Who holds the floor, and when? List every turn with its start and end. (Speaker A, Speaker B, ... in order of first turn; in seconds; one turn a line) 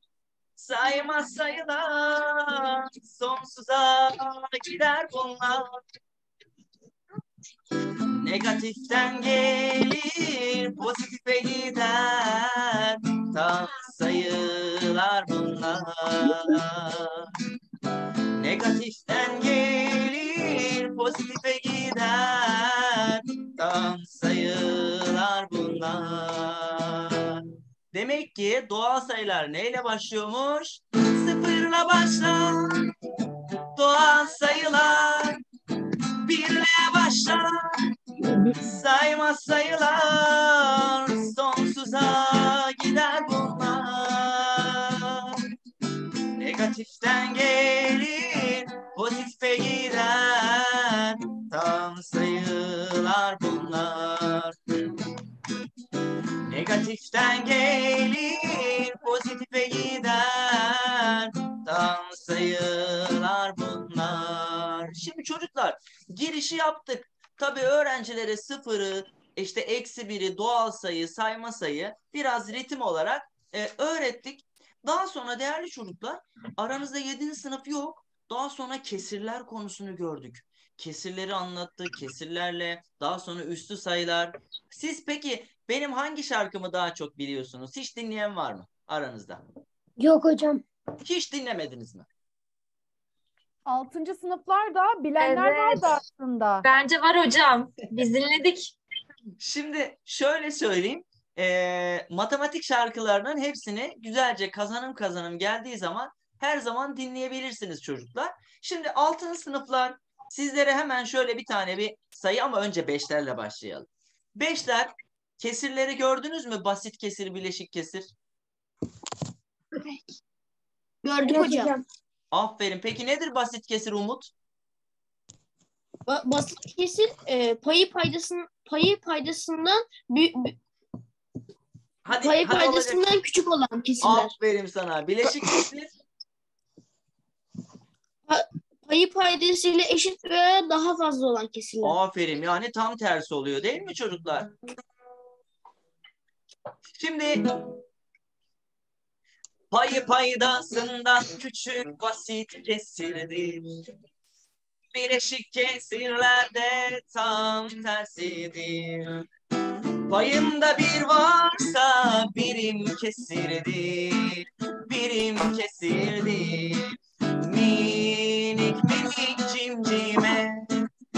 Speaker A: 0.6-5.8
Speaker A: 8.2-17.3
Speaker A: 18.4-32.9
Speaker A: 33.8-35.4
Speaker A: 36.2-37.5
Speaker A: 38.6-45.4
Speaker A: 46.3-54.6
Speaker A: 56.5-89.4
Speaker A: 91.0-92.1
Speaker B: 93.7-96.6
Speaker C: 95.2-95.9
Speaker C: 96.6-98.7
Speaker A: 99.4-118.1
Speaker D: 121.0-121.7
Speaker A: 122.3-124.3
Speaker D: 126.0-130.6
Speaker A: 132.0-133.0
Speaker D: 132.1-134.3
Speaker A: 134.0-135.9
Speaker D: 138.3-142.0
Speaker A: 141.8-144.5
Speaker A: 146.9-147.5
Speaker A: 149.7-153.6
Speaker A: 154.9-159.2
Speaker A: 160.0-170.7